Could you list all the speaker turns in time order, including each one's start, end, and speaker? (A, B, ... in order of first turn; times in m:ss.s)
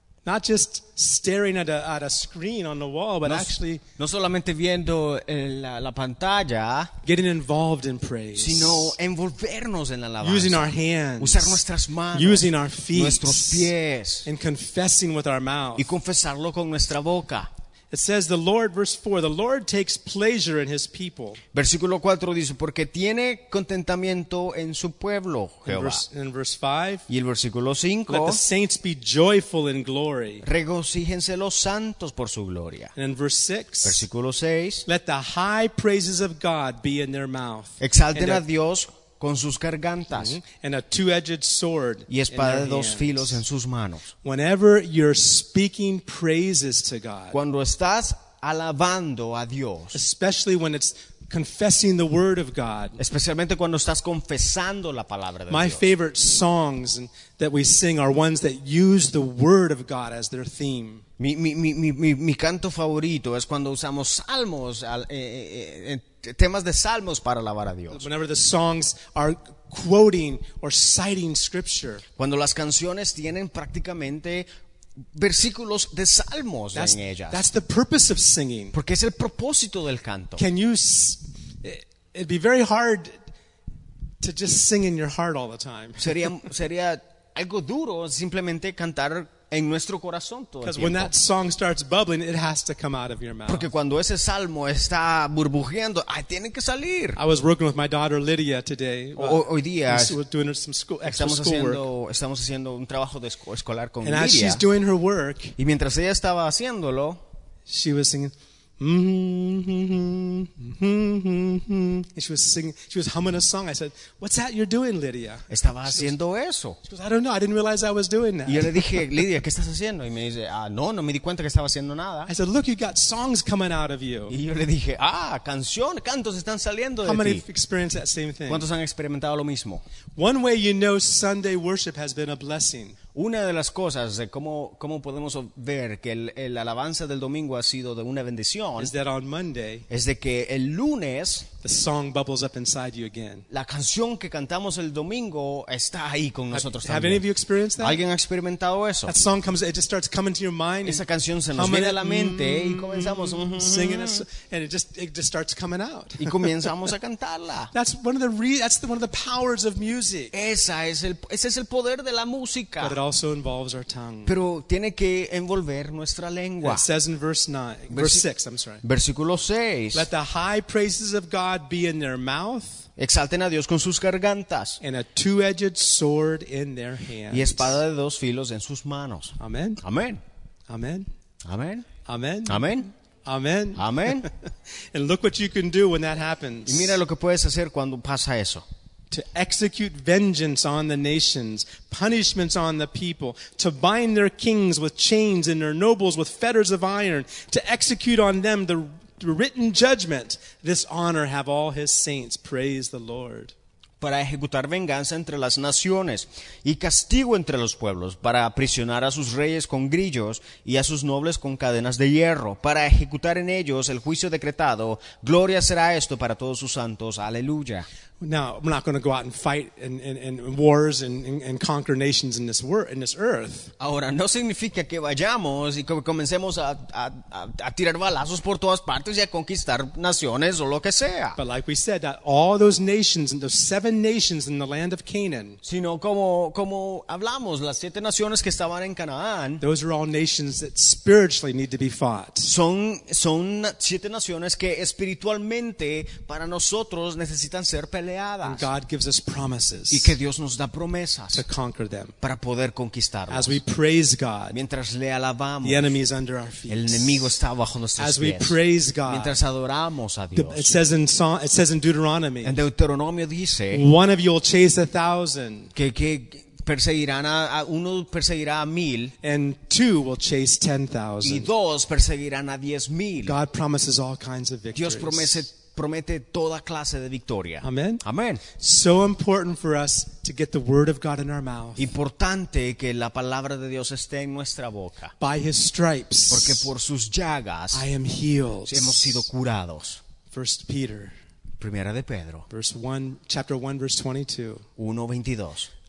0:00.2-0:03.8 A
0:03.2-0:06.9 B
0:07.0-0:08.9 A
0:08.4-0:14.3 B
0:10.2-0:11.6 A
0:12.1-0:13.7 A
0:14.2-0:15.9 A
0:15.8-0:17.5 B
0:17.9-0:21.4 A
0:21.5-0:26.0 B
0:25.6-0:27.0 A
0:27.1-0:28.4 B
0:28.1-0:30.4 A
0:30.4-0:32.9 B
0:32.9-0:34.0 A
0:33.8-0:34.8 B
0:34.9-0:38.4 A
0:37.8-0:40.4 B
0:40.1-0:43.4 A
0:42.1-0:44.1 B
0:44.2-0:47.4 A
0:47.3-0:50.0 B
0:49.9-0:53.0 A
0:53.0-0:55.9 B
0:55.5-1:01.0 A
1:01.2-1:08.0 B
1:07.9-1:12.0 A
1:12.2-1:14.4 B
1:15.1-1:17.4 B
1:16.7-1:18.8 A
1:18.7-1:20.4 B
1:20.4-1:23.1 A
1:24.2-1:26.3 A
1:26.0-1:31.1 B
1:30.6-1:33.7 A
1:33.5-1:37.2 B
1:37.2-1:41.8 A
1:39.2-1:40.2 B
1:41.0-1:44.6 B
1:44.0-1:45.6 A
1:45.6-1:47.2 B
1:47.7-1:56.1 A
1:55.5-1:56.8 B
1:56.8-1:58.9 A
1:58.4-2:02.3 B
2:02.3-2:04.3 A
2:04.3-2:07.4 B
2:07.0-2:08.7 A
2:08.5-2:09.8 B
2:10.2-2:13.0 A
2:13.1-2:18.9 B
2:18.8-2:19.9 A
2:19.9-2:21.5 B
2:21.6-2:23.5 A
2:23.5-2:27.2 B
2:26.5-2:28.0 A
2:27.8-2:29.1 B
2:29.0-2:36.5 A
2:30.8-2:34.2 B
2:36.2-2:37.7 B
2:37.7-2:40.3 A
2:40.3-2:43.0 B
2:42.8-2:44.3 A
2:44.2-2:46.8 B
2:46.6-2:48.8 A
2:47.9-2:48.2 B
2:48.8-2:50.0 B
2:49.9-2:52.9 A
2:53.0-2:54.8 B
2:54.8-2:57.8 A
2:57.3-3:00.2 B
2:59.4-2:59.8 A
3:00.7-3:01.1 A
3:01.4-3:01.9 B
3:02.0-3:07.0 A
3:02.5-3:02.9 B
3:03.8-3:04.3 B
3:06.7-3:08.6 B
3:09.1-3:23.5 A
3:24.0-3:37.9 B
3:38.2-3:43.7 A
3:43.8-3:51.4 B
3:51.4-3:55.6 A
3:55.6-3:59.6 B
3:59.6-4:02.5 A
4:02.4-4:08.7 B
4:08.4-4:10.2 A
4:09.9-4:11.4 B
4:11.3-4:12.1 A
4:12.2-4:13.6 B
4:13.3-4:14.6 A
4:14.5-4:16.0 B
4:15.6-4:17.2 A
4:16.7-4:20.7 B
4:18.0-4:19.4 A
4:20.3-4:22.6 A
4:22.4-4:23.9 B
4:23.7-4:25.7 A
4:25.7-4:29.1 B
4:29.2-4:31.5 A
4:31.2-4:33.4 B
4:33.2-4:35.4 A
4:34.7-4:38.4 B
4:37.6-4:38.0 A
4:38.6-4:41.9 A
4:41.8-4:45.1 B
4:45.2-4:46.7 A
4:46.3-4:47.8 B
4:47.7-4:49.2 A
4:48.7-4:50.0 B
4:50.3-4:51.1 A
4:51.6-4:52.4 B
4:52.5-4:54.6 A
4:54.8-4:55.7 B